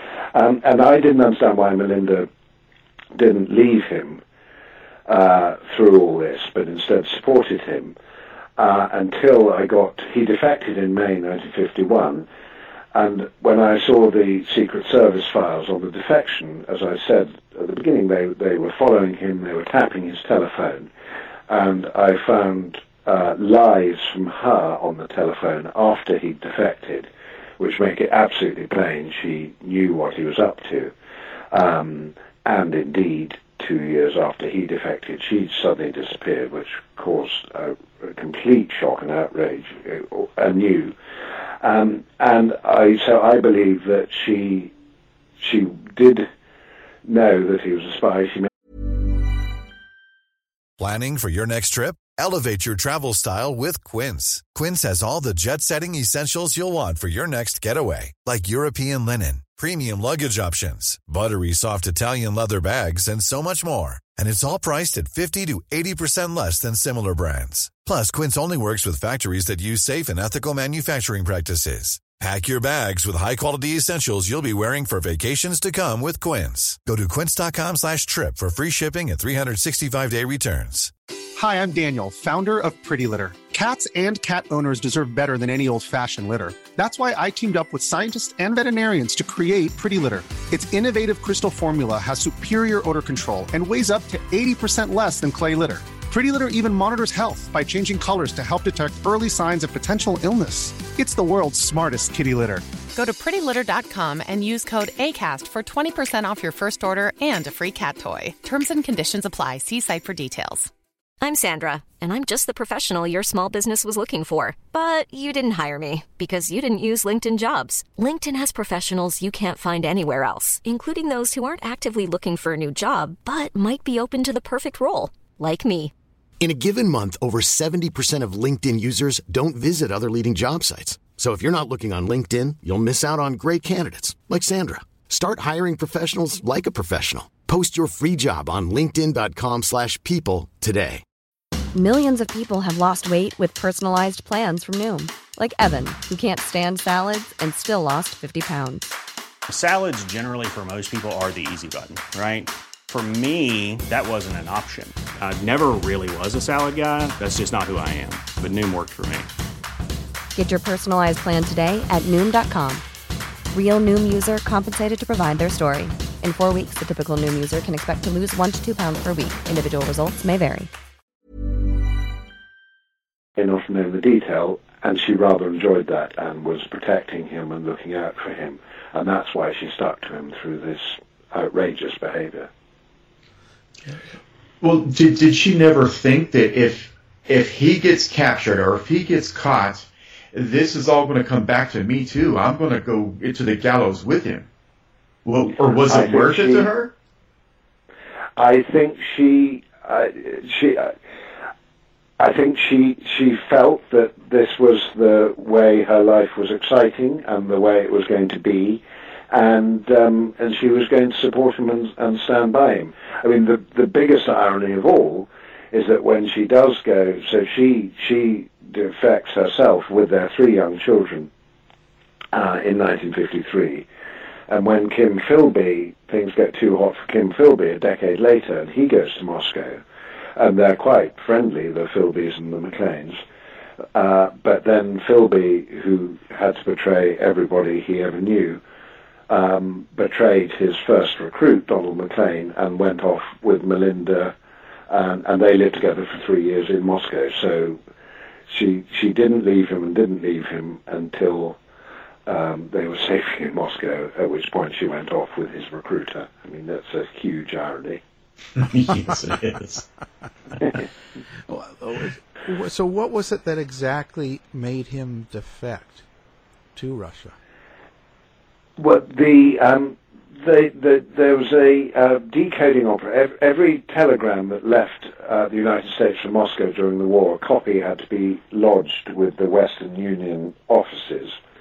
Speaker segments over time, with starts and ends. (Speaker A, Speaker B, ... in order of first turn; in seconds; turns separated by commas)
Speaker A: 0.3-2.3, Speaker A: 3.1-4.2, Speaker A: 5.1-7.9, Speaker A: 8.6-12.2, Speaker A: 12.9-20.9, Speaker A: 21.5-27.1, Speaker A: 27.6-30.9, Speaker A: 31.5-40.9, Speaker A: 41.6-44.7, Speaker A: 45.4-46.2, Speaker A: 47.0-48.5, Speaker B: 50.8-80.9, Speaker C: 81.4-102.6, Speaker D: 102.9-110.7, Speaker E: 111.2-125.9, Speaker F: 126.4-141.0, Speaker G: 141.7-148.9, Speaker H: 149.5-159.3, Speaker G: 160.3-162.8, Speaker G: 163.5-170.7, Speaker A: 173.4-182.5, Speaker I: 184.6-194.5, Speaker I: 195.2-196.9, Speaker A: 195.8-196.7, Speaker A: 198.4-200.9, Speaker A: 202.2-221.3, Speaker A: 222.3-223.8, Speaker A: 224.5-229.8, Speaker A: 230.4-233.2, Speaker A: 233.9-238.6, Speaker A: 239.3-244.3, Speaker A: 244.9-247.8, Speaker A: 248.5-251.6, Speaker A: 252.2-258.0, Speaker I: 258.6-259.8, Speaker J: 261.5-266.0, Speaker J: 266.7-267.3, Speaker A: 268.8-281.4